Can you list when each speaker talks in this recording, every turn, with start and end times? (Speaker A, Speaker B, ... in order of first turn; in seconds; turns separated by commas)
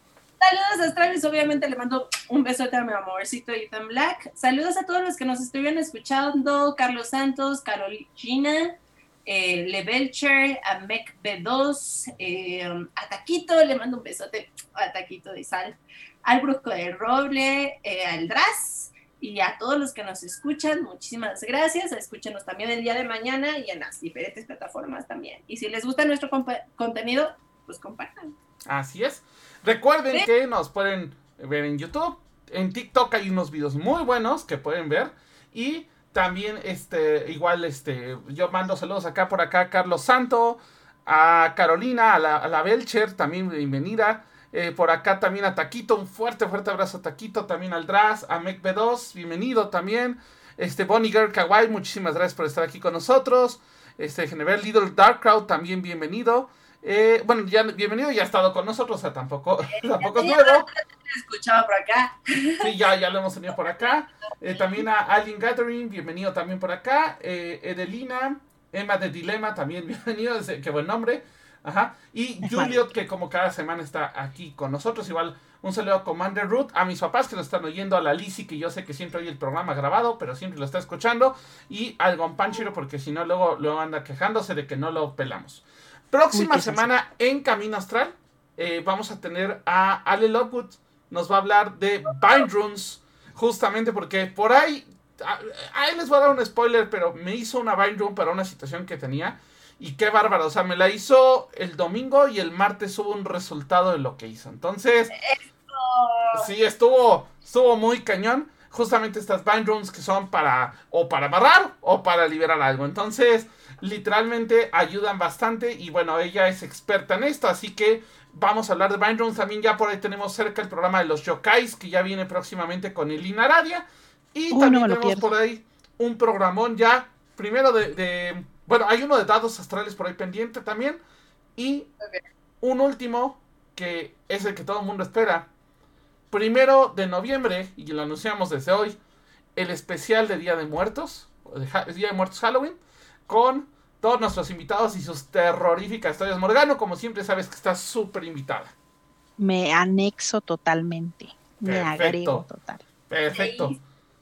Speaker A: 0.4-28.3, Speaker B: 28.6-60.7, Speaker A: 59.8-62.7, Speaker B: 62.6-105.1, Speaker C: 72.4-72.8, Speaker C: 86.3-86.9, Speaker A: 105.1-106.5, Speaker B: 106.3-131.0, Speaker C: 124.5-125.3, Speaker B: 131.6-131.9, Speaker B: 132.6-135.5, Speaker B: 136.3-139.0, Speaker B: 139.6-148.7, Speaker C: 149.4-152.8, Speaker B: 151.6-152.4, Speaker B: 153.1-153.8, Speaker A: 153.3-153.8